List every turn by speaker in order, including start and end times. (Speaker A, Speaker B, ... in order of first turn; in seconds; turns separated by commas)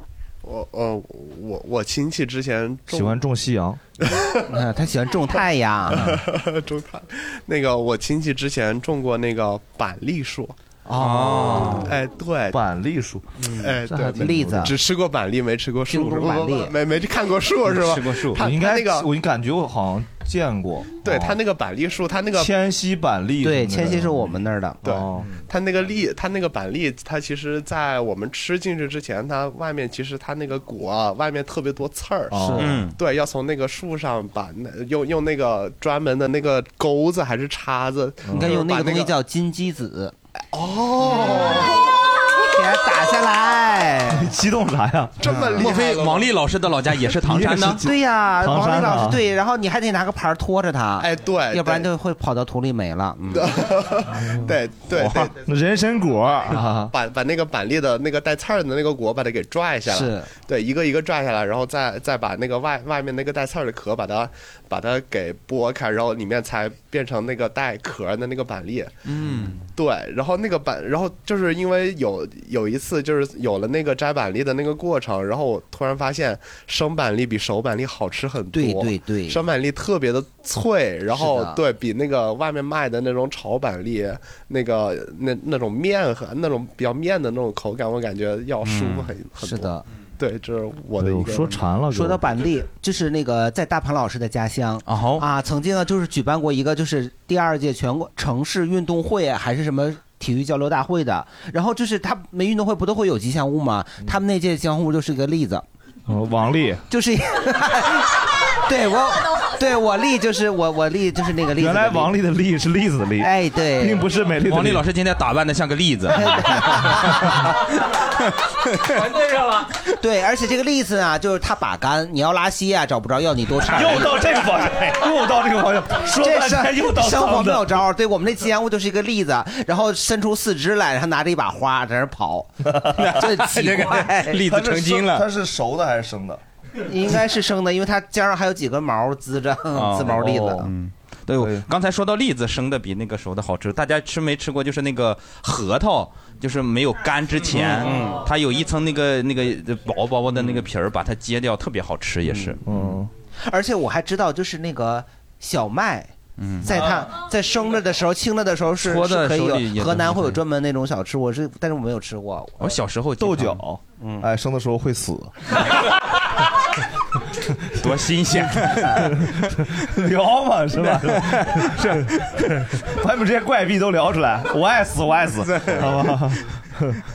Speaker A: 0.4-3.2, Speaker B: 2.9-3.8, Speaker A: 4.0-4.4, Speaker C: 4.5-6.2, Speaker A: 6.0-10.6, Speaker C: 10.9-11.9, Speaker D: 11.0-11.9, Speaker A: 11.8-12.6, Speaker B: 12.5-14.7, Speaker A: 13.6-19.1, Speaker C: 14.2-14.8, Speaker C: 15.9-16.7, Speaker D: 17.7-18.4, Speaker B: 18.4-21.4, Speaker A: 21.0-22.5, Speaker B: 22.4-24.3, Speaker C: 23.4-24.8, Speaker A: 24.8-32.4, Speaker B: 24.8-25.3, Speaker B: 32.3-32.9, Speaker C: 32.4-32.8, Speaker D: 32.6-32.9, Speaker A: 33.0-39.1, Speaker B: 38.2-38.6, Speaker C: 38.3-40.1, Speaker A: 40.5-41.8, Speaker C: 41.0-41.8, Speaker C: 42.4-44.3, Speaker B: 44.1-45.4, Speaker A: 45.2-46.3, Speaker D: 45.4-47.8, Speaker B: 47.2-49.2, Speaker C: 47.8-53.6, Speaker A: 51.0-51.9, Speaker A: 53.3-55.4, Speaker B: 54.9-56.9, Speaker A: 56.5-69.0, Speaker C: 59.9-60.3, Speaker D: 69.0-69.6, Speaker A: 69.7-91.6, Speaker C: 78.5-79.4, Speaker C: 81.2-81.6, Speaker D: 88.6-89.1, Speaker C: 89.4-89.8, Speaker B: 91.0-92.2, Speaker C: 91.9-105.7, Speaker D: 94.9-95.3, Speaker B: 106.1-106.9, Speaker C: 106.9-112.1, Speaker B: 111.6-114.8, Speaker C: 113.2-114.0, Speaker D: 114.5-117.4, Speaker C: 116.1-117.3, Speaker D: 118.8-119.0, Speaker C: 120.0-124.2, Speaker B: 123.7-127.8, Speaker C: 126.2-134.4, Speaker B: 132.7-133.1, Speaker D: 133.0-135.2, Speaker B: 134.4-136.4, Speaker C: 136.9-140.7, Speaker D: 139.7-153.0, Speaker B: 140.0-140.7, Speaker B: 141.4-141.7, Speaker C: 147.5-148.2, Speaker C: 152.2-152.6, Speaker B: 152.7-153.1, Speaker C: 153.4-162.7, Speaker D: 156.4-156.7, Speaker D: 158.8-160.4, Speaker D: 162.6-163.6, Speaker B: 163.2-165.3, Speaker C: 164.0-164.3, Speaker D: 167.8-169.7, Speaker B: 168.6-177.0, Speaker D: 170.8-172.5, Speaker D: 175.4-176.2